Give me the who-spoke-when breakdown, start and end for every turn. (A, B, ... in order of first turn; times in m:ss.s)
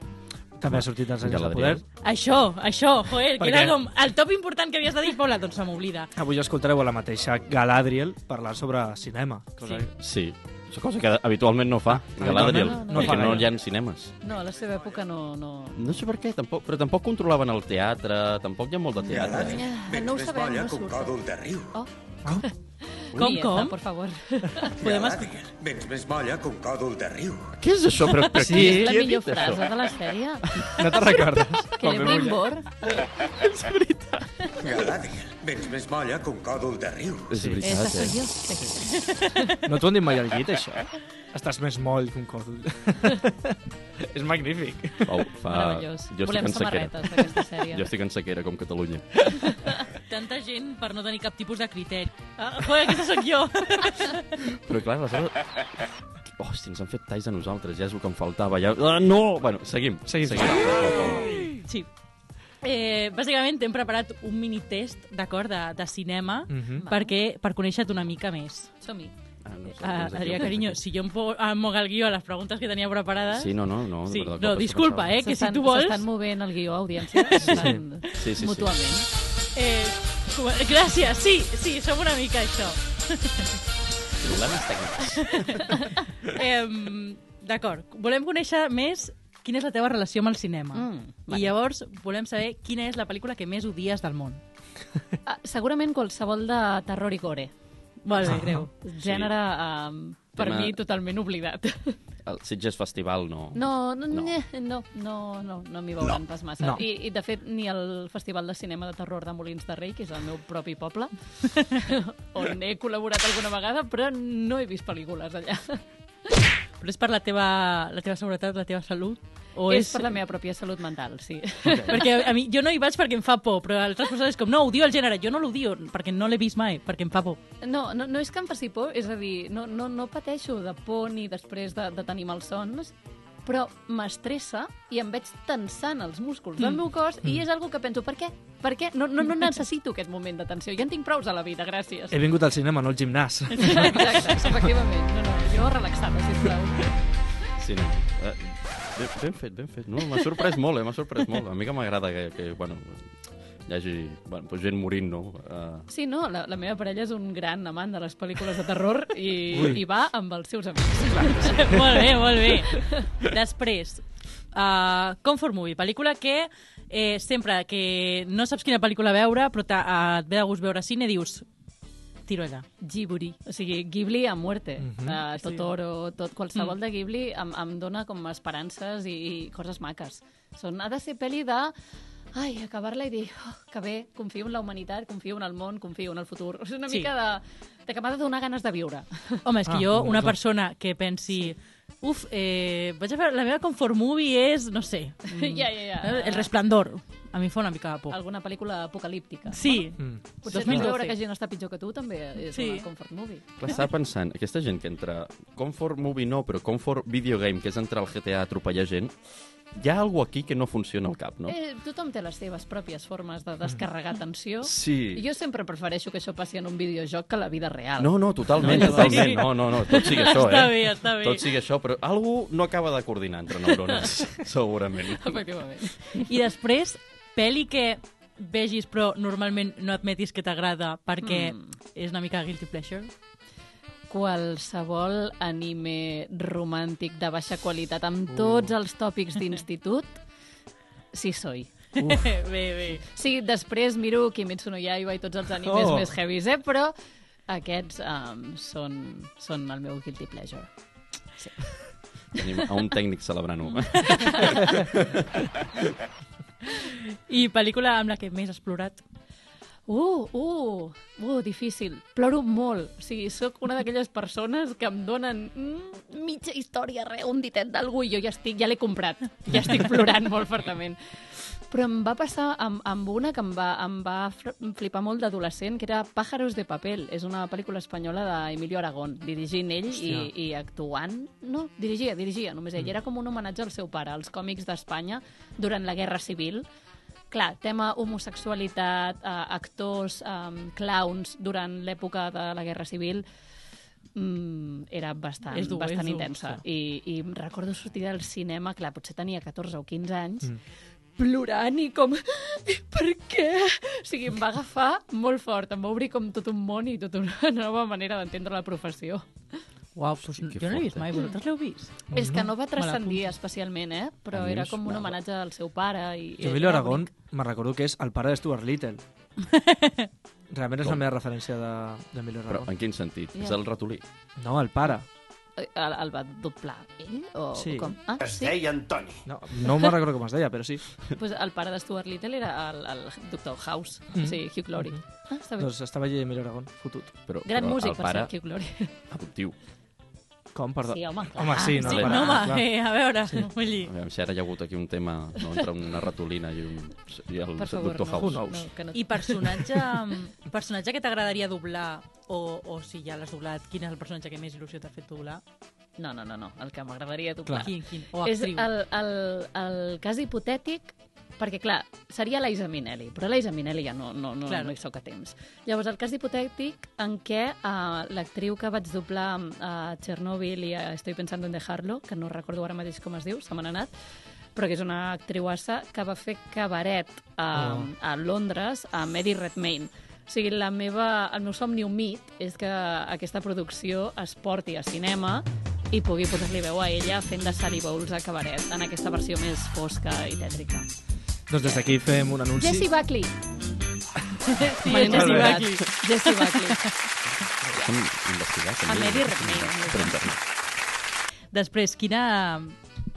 0:00.6-0:01.8 A
0:00.6-0:01.8 B
0:02.0-0:06.1 C
0:03.4-0:03.8 A
0:06.2-0:09.9 A
0:10.0-0:14.2 B
0:11.9-0:13.5 A
0:12.3-0:13.4 D
0:14.2-0:15.8 D
0:15.8-0:19.6 B
0:19.1-0:21.1 D
0:19.1-0:21.8 E
0:21.8-0:22.5 D
0:23.0-0:24.7 D
0:23.2-0:23.8 C
0:24.6-0:27.6 E
0:24.8-0:25.4 C
0:27.6-0:29.9 B
0:28.3-0:29.0 A
0:28.4-0:32.8 D
0:30.6-0:32.4 A
0:33.0-0:34.3 B
0:34.6-0:37.3 E
0:37.3-0:38.2 B
0:37.3-0:37.6 A
0:37.6-0:39.6 D
0:39.0-0:39.6 C
0:39.6-0:45.2 A
0:45.0-0:49.1 B
0:45.5-0:47.9 D
0:50.0-0:54.4 C
0:54.4-0:55.9 B
0:56.4-1:01.5 B
1:00.1-1:00.8 A
1:01.6-1:01.9 C
1:02.6-1:08.7 C
1:06.5-1:06.9 A
1:06.8-1:07.1 D
1:08.8-1:09.1 D
1:09.4-1:10.8 B
1:09.8-1:16.0 C
1:13.3-1:15.1 B
1:15.2-1:19.1 D
1:17.1-1:17.7 C
1:17.4-1:17.8 A
1:18.2-1:18.7 B
1:19.6-1:23.6 C
1:24.2-1:25.4 B
1:25.0-1:34.4 C
1:25.6-1:25.9 D
1:30.8-1:31.5 D
1:35.3-1:37.5 D
1:38.0-1:38.7 C
1:38.2-1:38.7 A
1:38.8-1:42.0 D
1:39.0-1:39.3 B
1:40.4-1:40.8 B
1:42.2-1:44.3 B
1:43.6-1:55.8 D
1:46.6-1:46.8 A
1:56.8-2:00.2 C
1:59.7-2:02.2 D
2:01.7-2:01.9 B
2:01.9-2:07.4 C
2:07.6-2:12.9 D
2:13.4-2:22.2 D
2:22.1-2:24.5 A
2:23.5-2:27.0 D
2:27.6-2:33.1 B
2:33.7-2:35.9 B
2:35.9-2:43.1 D
2:39.5-2:39.8 A
2:41.4-2:41.8 A
2:41.5-2:51.5 C
2:52.3-2:52.7 C
2:52.8-3:01.7 D
2:54.8-2:55.2 A
2:55.4-2:55.7 C
3:02.3-3:09.4 D
3:09.4-3:18.2 C
3:09.7-3:10.4 A
3:15.3-3:16.5 D
3:18.1-3:23.7 D
3:19.5-3:21.2 C
3:20.0-3:20.9 A
3:22.5-3:22.9 C
3:23.6-3:29.1 B
3:29.8-3:31.6 B
3:31.5-3:40.1 D
3:34.6-3:35.2 B
3:38.0-3:45.4 B
3:38.6-3:41.5 C
3:38.7-3:39.1 A
3:45.2-3:46.2 D
3:46.2-3:53.1 C
3:51.2-3:51.6 D
3:54.1-4:00.2 D
3:58.3-3:58.7 A
4:01.1-4:01.7 D
4:02.0-4:03.0 C
4:02.0-4:02.3 A
4:03.1-4:06.9 D
4:05.6-4:06.2 A
4:07.5-4:10.7 D
4:11.4-4:11.8 D
4:12.3-4:14.8 B
4:14.1-4:14.8 D
4:16.6-4:19.0 C
4:19.9-4:46.7 D
4:39.9-4:40.3 A
4:47.3-4:53.2 D
4:54.2-5:00.6 D
4:55.5-4:56.3 C
5:01.2-5:09.6 D
5:10.0-5:12.1 C
5:10.3-5:11.1 B
5:12.1-5:12.5 A
5:12.1-5:17.1 D
5:12.8-5:13.3 C
5:14.3-5:15.2 B
5:16.4-5:19.0 A
5:19.4-5:20.1 C
5:20.5-5:22.7 A
5:22.5-5:24.0 B
5:24.4-5:25.1 A
5:25.6-5:28.6 D
5:27.6-5:28.0 A
5:28.2-5:29.2 E
5:29.3-5:30.8 A
5:29.6-5:29.9 D
5:31.2-5:35.7 D
5:34.1-5:35.0 A
5:35.6-5:37.1 A
5:37.3-5:38.3 B
5:37.5-5:38.9 D
5:39.1-5:39.6 B
5:40.5-5:42.7 A
5:40.9-5:42.5 D
5:41.8-5:43.9 C
5:43.8-5:48.4 B
5:47.6-5:49.9 D
5:48.1-5:48.7 A
5:48.9-5:55.4 C
5:56.0-6:13.9 D
5:57.4-5:57.7 A
5:57.6-5:58.7 C
6:04.5-6:04.7 C
6:14.6-6:30.9 D
6:17.5-6:17.9 A
6:31.5-6:32.9 A
6:31.6-6:31.9 D
6:32.6-6:33.3 D
6:34.5-6:36.9 C
6:34.6-6:36.9 D
6:34.9-6:35.7 A
6:37.6-6:40.4 B
6:38.9-6:40.3 D
6:41.5-6:42.8 C